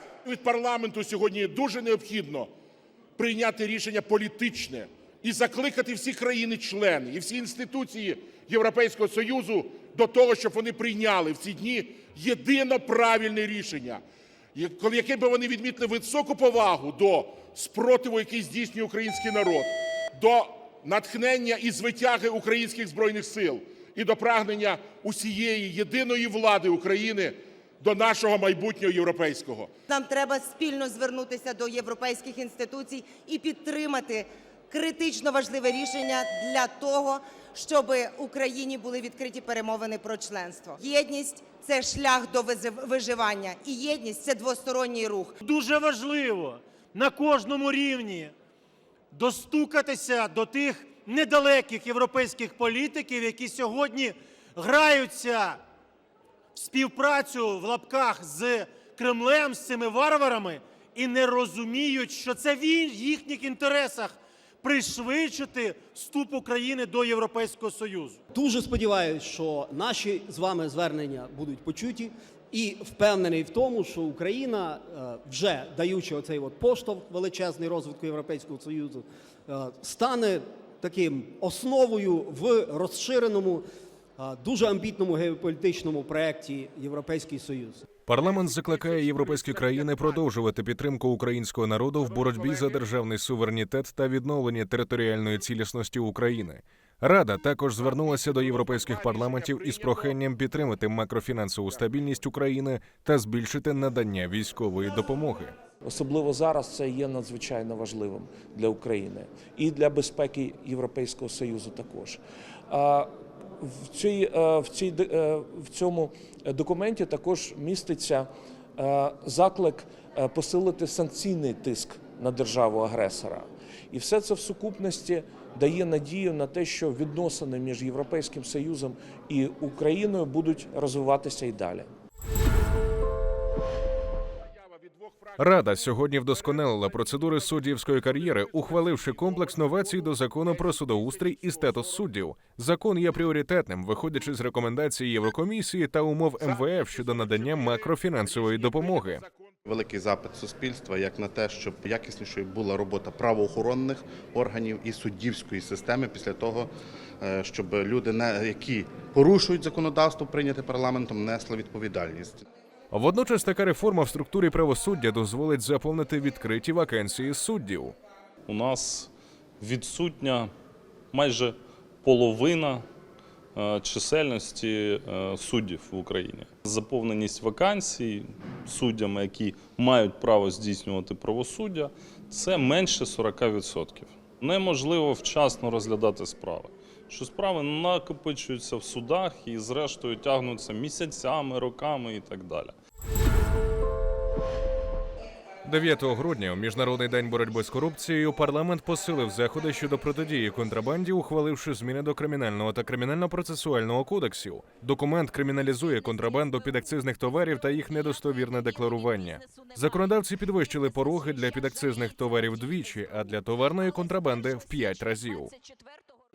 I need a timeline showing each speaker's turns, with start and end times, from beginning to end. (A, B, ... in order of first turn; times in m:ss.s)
0:00.2-0:02.5 A
0:03.2-0:14.0 A
0:14.6-0:29.7 A
0:29.9-0:45.3 B
0:45.4-0:48.3 C
0:49.1-0:55.6 C
0:56.6-1:08.2 C
1:08.3-1:23.6 D
1:24.2-1:27.8 D
1:28.1-1:45.6 E
1:45.8-2:11.9 F
2:15.0-2:15.3 A
2:15.4-2:29.2 E
2:18.7-2:20.5 A
2:21.4-2:21.9 A
2:27.3-2:27.6 A
2:29.7-2:42.4 G
2:42.9-2:47.9 E
2:48.5-2:49.1 H
2:49.6-2:50.5 H
2:51.1-2:52.8 H
2:53.6-3:12.7 H
3:15.6-3:35.5 E